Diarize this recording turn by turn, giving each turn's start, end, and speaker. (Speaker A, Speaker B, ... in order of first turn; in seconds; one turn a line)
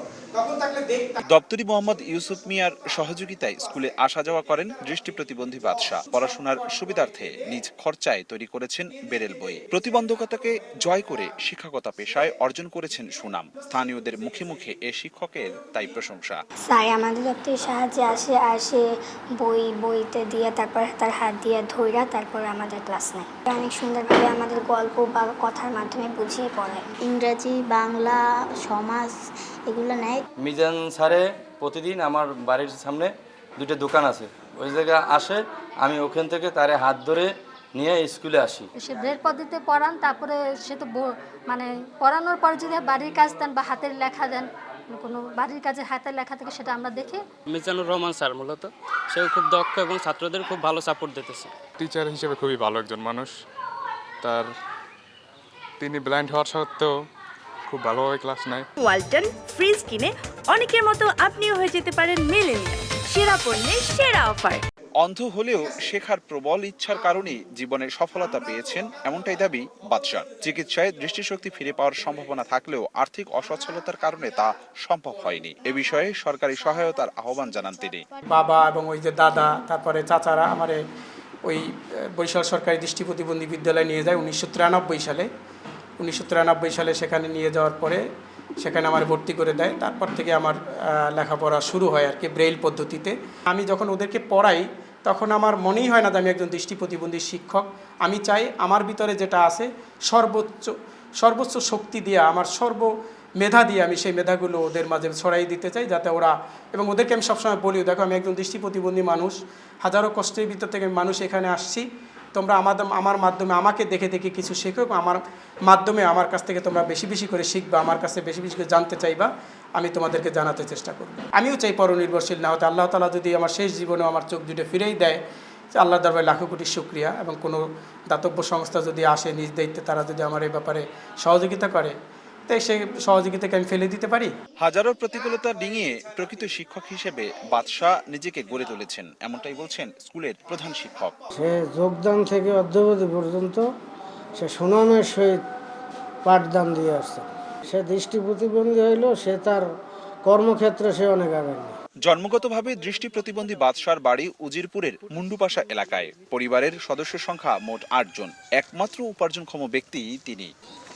Speaker A: 0.3-1.2
Speaker B: 1.3-16.4
Speaker C: 16.6-26.9
Speaker D: 27.0-30.2
Speaker E: 30.4-38.7
Speaker F: 39.0-40.9
Speaker F: 41.5-44.4
Speaker F: 45.0-47.1
Speaker G: 47.5-51.5
Speaker H: 51.8-53.3
Speaker H: 54.2-54.5
Speaker H: 55.8-56.9
Speaker H: 57.7-58.6
Speaker I: 58.8-64.6
Speaker B: 65.0-78.0
Speaker A: 78.3-80.8
Speaker A: 82.2-85.3
Speaker A: 86.0-88.0
Speaker A: 88.6-125.2
Speaker A: 125.8-131.9
Speaker A: 132.5-134.3
Speaker B: 134.6-141.1
Speaker J: 141.3-143.6
Speaker J: 144.4-145.4
Speaker J: 146.2-149.7
Speaker J: 150.2-151.7
Speaker B: 152.0-160.5